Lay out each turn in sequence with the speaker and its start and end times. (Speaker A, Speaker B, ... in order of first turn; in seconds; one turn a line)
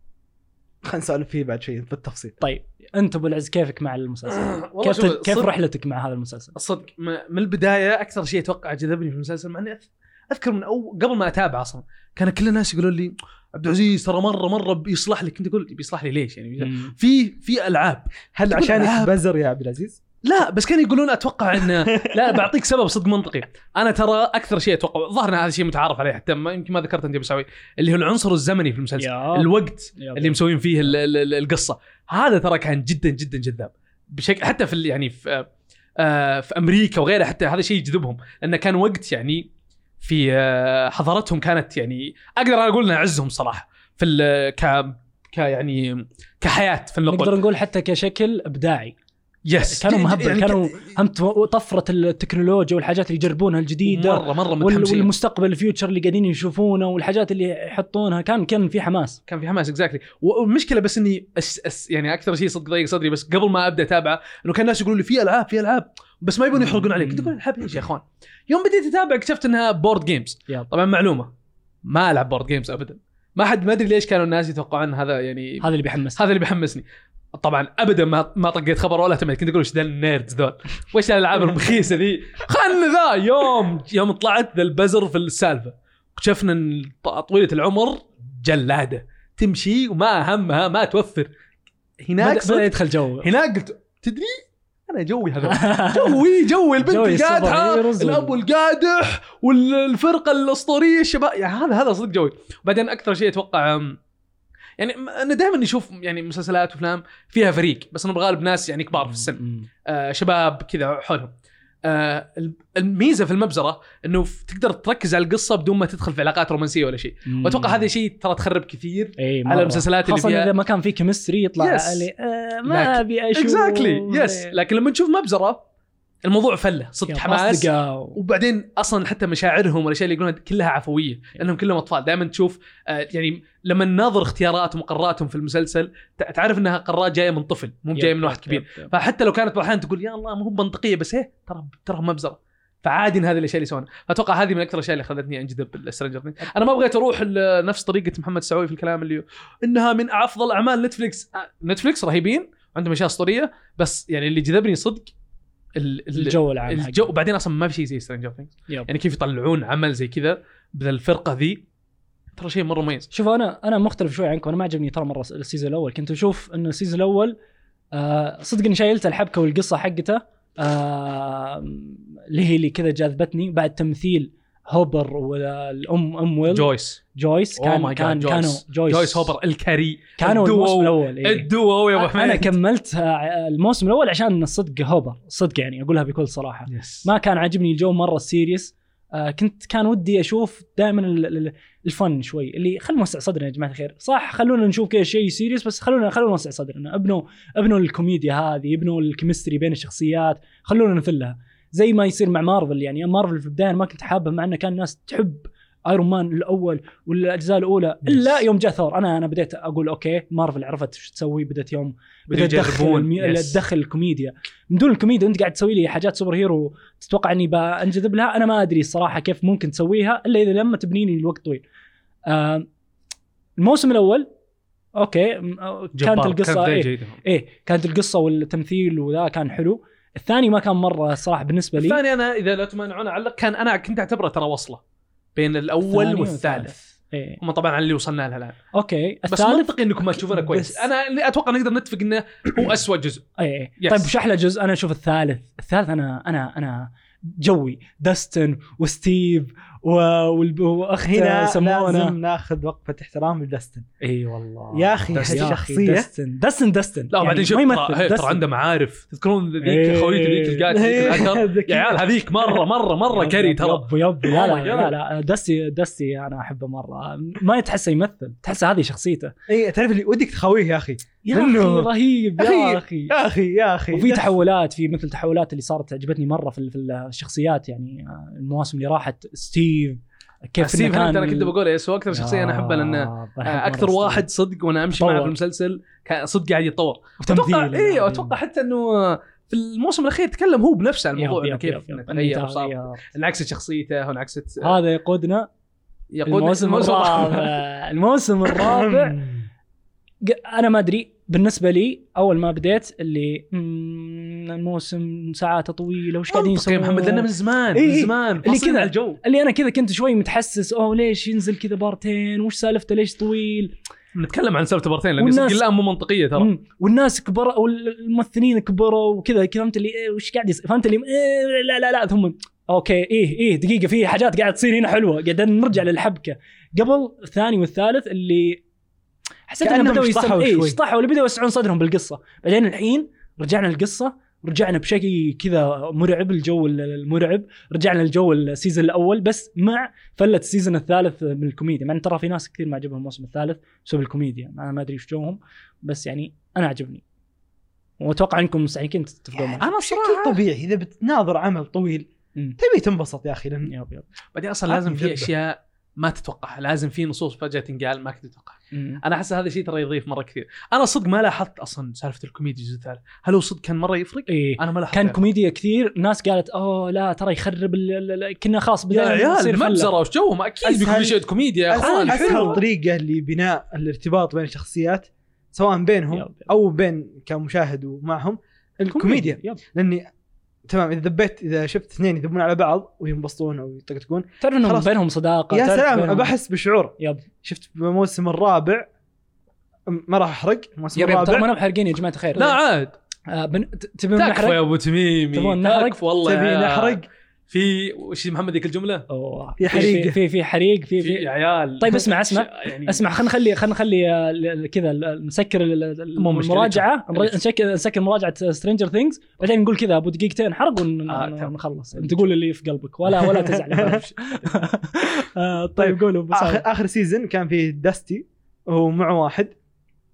Speaker A: 0.8-2.4
Speaker B: 2.4-6.6
Speaker C: 4.3-5.5
Speaker C: 6.6-19.1
Speaker B: 16.6-16.9
Speaker A: 18.4-20.0
Speaker C: 20.2-35.5
Speaker A: 21.9-22.3
Speaker B: 29.0-30.4
Speaker C: 36.0-39.5
Speaker C: 40.0-47.4
Speaker B: 47.1-49.0
Speaker C: 49.5-50.9
Speaker B: 49.6-59.2
Speaker C: 53.9-55.1
Speaker C: 59.3-71.3
Speaker B: 66.6-67.3
Speaker C: 71.8-76.8
Speaker B: 75.6-76.2
Speaker C: 77.3-91.3
Speaker C: 92.0-104.0
Speaker B: 92.2-93.3
Speaker B: 95.5-96.2
Speaker B: 96.8-98.4
Speaker C: 104.8-111.3
Speaker B: 109.0-109.7
Speaker C: 111.8-120.5
Speaker B: 117.3-117.8
Speaker B: 119.2-124.5
Speaker C: 121.6-122.1
Speaker C: 122.7-125.6
Speaker C: 126.2-155.1
Speaker B: 127.1-128.2
Speaker B: 138.0-138.9
Speaker C: 155.8-161.6
Speaker B: 156.1-157.1
Speaker C: 162.4-163.1
Speaker B: 163.1-167.4
Speaker B: 167.9-179.3
Speaker C: 176.5-177.0
Speaker C: 177.6-182.5
Speaker B: 180.2-221.6
Speaker C: 186.7-187.1
Speaker C: 208.1-208.4
Speaker C: 212.3-213.6
Speaker B: 222.3-222.7
Speaker B: 223.6-224.3
Speaker B: 225.0-232.0
Speaker C: 226.0-227.2
Speaker C: 231.8-234.8
Speaker C: 235.4-236.7
Speaker B: 235.8-237.4
Speaker C: 237.4-238.6
Speaker B: 238.7-239.7
Speaker C: 239.3-243.2
Speaker B: 240.3-240.7
Speaker B: 243.4-252.2
Speaker C: 243.8-244.1
Speaker A: 251.0-253.8
Speaker B: 254.0-258.4
Speaker A: 254.7-256.1
Speaker C: 255.1-255.6
Speaker C: 257.1-264.9
Speaker B: 259.6-260.8
Speaker A: 260.7-262.2
Speaker B: 263.1-269.3
Speaker A: 269.5-274.3
Speaker B: 271.2-273.1
Speaker B: 273.9-281.5
Speaker C: 280.6-294.8
Speaker B: 282.1-284.3
Speaker B: 284.9-285.4
Speaker B: 287.2-288.4
Speaker B: 291.2-293.0
Speaker B: 294.6-295.5
Speaker C: 296.1-297.6
Speaker B: 296.3-299.2
Speaker A: 298.5-299.5
Speaker B: 300.2-313.8
Speaker C: 306.3-309.2
Speaker C: 314.1-316.5
Speaker B: 315.2-315.6
Speaker B: 316.4-328.6
Speaker B: 329.5-347.0
Speaker A: 329.6-330.8
Speaker B: 348.0-349.7
Speaker A: 349.4-353.7
Speaker C: 349.6-350.4
Speaker B: 353.7-354.1
Speaker C: 354.4-365.2
Speaker A: 354.7-355.3
Speaker B: 358.7-359.0
Speaker B: 364.3-369.9
Speaker C: 368.9-372.6
Speaker A: 370.6-380.1
Speaker B: 371.8-372.6
Speaker B: 376.1-376.5
Speaker B: 378.9-379.6
Speaker A: 380.7-384.9
Speaker B: 384.4-386.4
Speaker A: 385.5-388.9
Speaker B: 387.0-387.2
Speaker A: 389.9-391.5
Speaker B: 390.9-392.6
Speaker C: 392.4-392.9
Speaker B: 393.3-394.6
Speaker C: 394.2-399.1
Speaker B: 395.3-396.0
Speaker A: 396.2-397.1
Speaker B: 399.1-416.6
Speaker A: 399.6-400.2
Speaker C: 399.7-399.9
Speaker C: 401.0-403.0
Speaker C: 406.2-407.4
Speaker C: 411.1-412.3
Speaker A: 413.2-414.0
Speaker C: 413.8-414.5
Speaker A: 415.8-419.5